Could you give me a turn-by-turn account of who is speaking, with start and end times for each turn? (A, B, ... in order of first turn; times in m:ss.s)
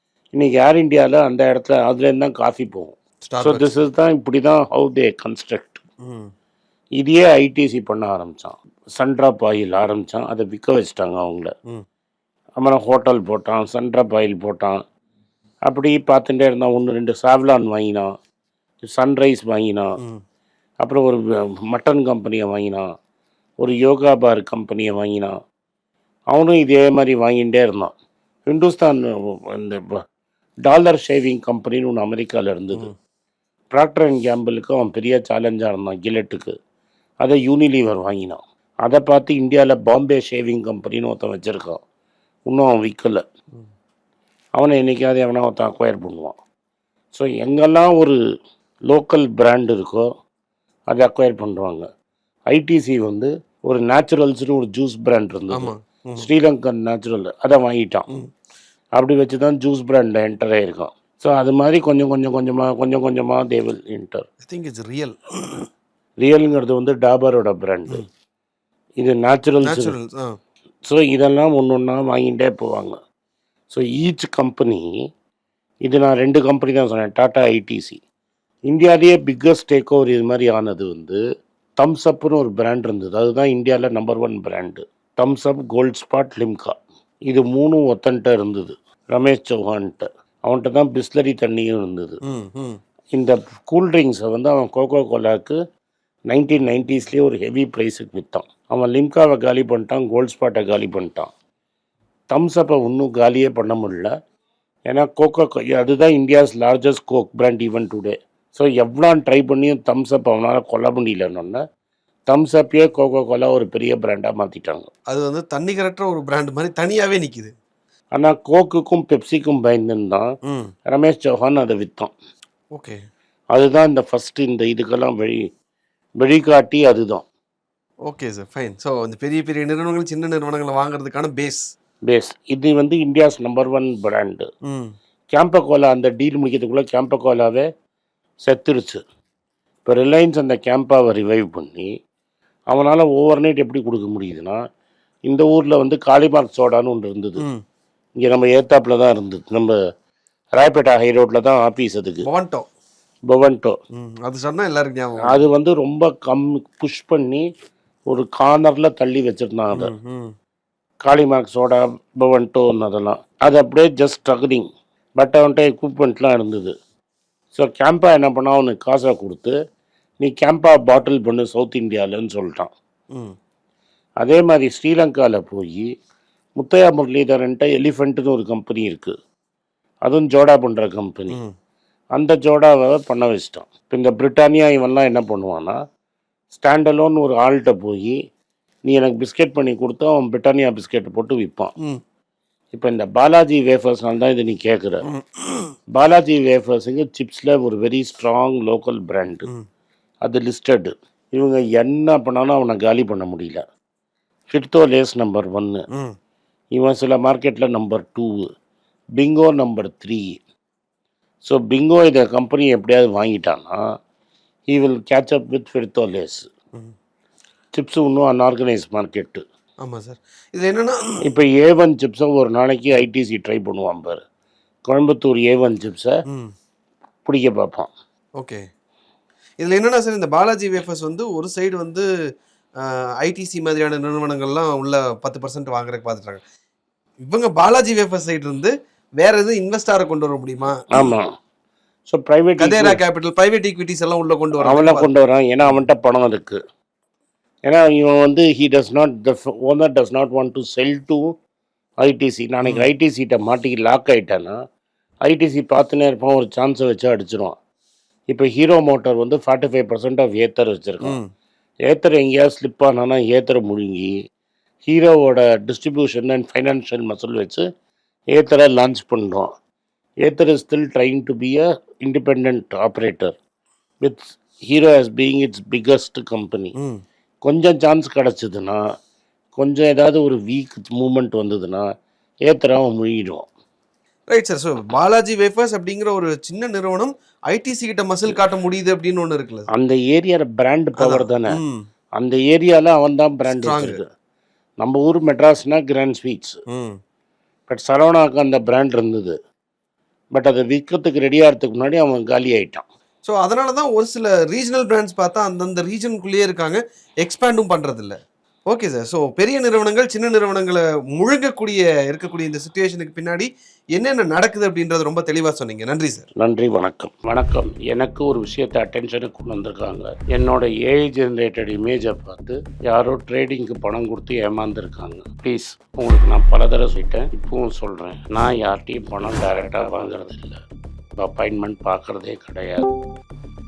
0:00.3-0:05.8 A
0:03.2-0:03.7 B
0:06.0-0:06.3 B
0:07.0-0:11.5 A
0:12.6-0:14.8 A
0:15.7-0:18.1 A
0:18.8-0:19.9 A
0:20.8-0:22.8 A
0:23.6-0:25.3 A
0:26.3-0:27.9 A
0:28.5-0:30.0 A
0:30.6-0:32.9 A
0:33.7-0:36.5 A
0:37.2-0:41.8 A
0:42.5-0:43.2 A
0:44.6-0:46.4 A
0:47.1-0:48.2 A
0:48.9-0:50.1 A
0:50.9-0:51.9 A
0:52.5-0:58.1 A
0:55.5-0:56.3 B
0:59.0-1:04.2 A
1:04.4-1:05.6 B
1:06.2-1:08.0 A
1:09.0-1:09.9 A
1:09.6-1:10.4 B
1:10.8-1:13.0 A
1:13.7-1:14.9 A
1:15.8-1:18.0 A
1:18.7-1:21.2 A
1:21.8-1:26.8 A
1:27.3-1:32.2 A
1:32.3-1:32.8 B
1:33.1-1:35.6 A
1:36.3-1:41.3 A
1:42.3-1:44.1 A
1:44.9-1:51.6 A
1:52.3-1:54.9 A
1:55.1-1:57.5 B
1:58.2-2:00.2 A
2:00.9-2:02.1 A
2:02.7-2:03.0 B
2:03.5-2:05.4 A
2:06.2-2:07.2 A
2:08.1-2:11.7 B
2:12.1-2:14.4 A
2:14.7-2:14.9 B
2:15.3-2:17.7 A
2:18.4-2:19.0 A
2:19.8-2:21.9 A
2:22.7-2:24.6 A
2:25.3-2:27.4 A
2:28.2-2:29.8 A
2:30.6-2:32.3 A
2:32.2-2:32.7 B
2:33.3-2:33.8 A
2:33.9-2:35.4 B
2:35.2-2:37.4 A
2:38.1-2:39.9 A
2:39.7-2:40.3 B
2:41.0-2:44.7 A
2:45.2-2:46.7 A
2:47.5-2:49.5 A
2:50.2-2:52.7 A
2:54.2-2:55.9 A
2:56.6-2:59.1 A
3:00.0-3:01.4 A
3:02.2-3:05.8 A
3:06.5-3:08.2 A
3:08.9-3:11.7 A
3:12.7-3:15.0 A
3:15.1-3:15.6 B
3:15.9-3:19.5 A
3:20.2-3:23.6 A
3:24.5-3:25.8 A
3:26.7-3:28.5 A
3:29.2-3:30.4 A
3:31.4-3:33.8 A
3:34.7-3:36.5 A
3:37.7-3:39.4 A
3:39.8-3:41.2 B
3:41.2-3:44.2 A
3:44.9-3:46.2 A
3:47.2-3:47.9 A
3:49.6-3:52.0 B
3:52.8-3:56.4 B
3:57.3-4:00.8 B
4:00.9-4:01.3 A
4:02.1-4:03.0 A
4:02.6-4:05.1 B
4:04.6-4:06.6 A
4:07.7-4:11.2 A
4:12.0-4:14.6 A
4:15.3-4:17.6 A
4:18.3-4:21.2 A
4:21.9-4:24.1 A
4:24.8-4:27.6 A
4:28.3-4:29.5 A
4:30.2-4:33.4 A
4:34.0-4:36.7 A
4:37.4-4:38.8 A
4:39.6-4:41.8 A
4:42.5-4:43.4 A
4:44.3-4:49.7 B
4:49.7-4:51.6 A
4:51.0-4:51.8 B
4:52.2-4:54.0 A
4:53.5-4:54.0 B
4:54.8-4:56.6 A
4:56.7-4:57.0 B
4:57.7-4:59.4 A
5:00.3-5:02.8 A
5:03.2-5:08.2 B
5:08.7-5:16.2 B
5:16.4-5:30.6 A
5:31.2-5:32.9 A